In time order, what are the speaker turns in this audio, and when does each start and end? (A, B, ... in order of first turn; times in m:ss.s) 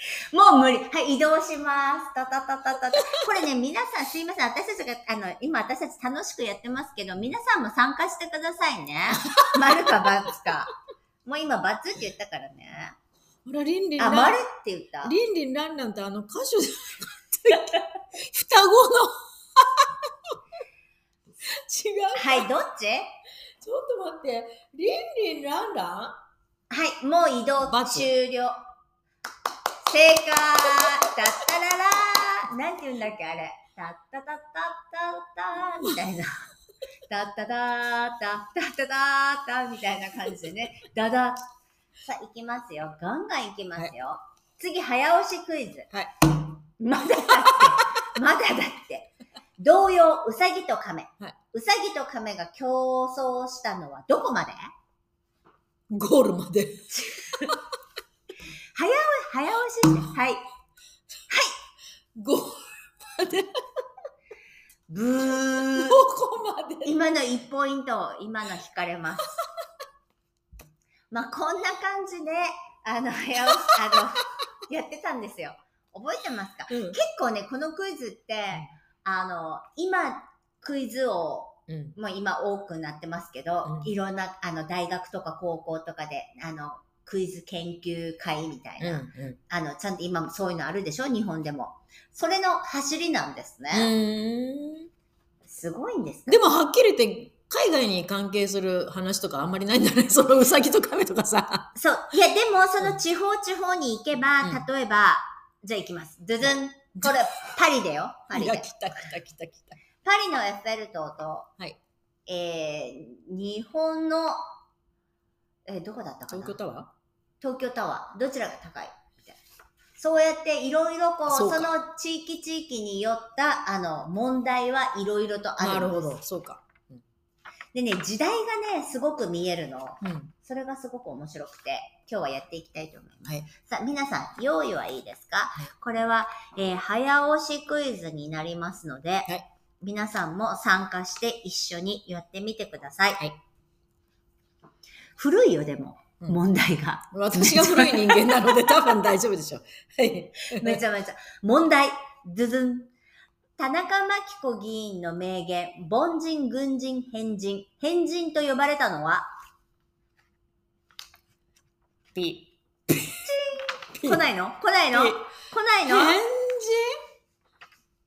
0:00.3-0:10.7 A
0:09.2-0:09.9 B
0:11.2-0:12.9 A
0:13.4-0:14.4 B
0:14.0-0:15.1 A
0:15.0-0:20.4 B
0:21.4-0:22.5 B
0:22.1-0:23.1 A
0:23.6-0:26.2 B
0:26.7-0:28.6 A
0:27.6-0:28.1 B
0:29.8-0:36.4 A
0:37.1-0:41.5 A
0:42.0-0:45.9 A
0:46.8-0:54.6 A
0:55.9-0:57.6 B
0:56.9-0:57.6 A
0:58.7-1:00.4 A
1:01.3-1:01.5 A
1:02.1-1:03.8 B
1:04.9-1:06.0 A
1:05.5-1:07.0 B
1:06.8-1:09.4 A
1:11.1-1:33.9 A
1:16.7-1:17.0 B
1:21.7-1:22.0 B
1:23.6-1:23.9 B
1:28.8-1:29.4 B
1:33.7-1:34.9 B
1:35.5-1:36.4 A
1:36.3-1:41.7 B
1:41.7-1:48.7 A
1:47.0-1:47.2 B
1:48.3-1:49.8 B
1:50.0-1:51.5 A
1:52.3-1:54.4 A
1:55.7-1:56.6 A
1:56.3-1:56.9 B
1:57.4-1:59.4 A
2:00.0-2:06.2 A
2:01.3-2:01.7 B
2:05.6-2:07.0 B
2:07.7-2:23.2 A
2:10.0-2:10.3 B
2:25.2-2:28.7 A
2:27.1-2:30.8 B
2:30.4-2:32.9 A
2:33.6-2:39.3 A
2:42.1-2:43.4 B
2:43.2-2:46.2 A
2:44.0-2:44.2 B
2:44.9-2:45.2 B
2:45.8-2:47.0 B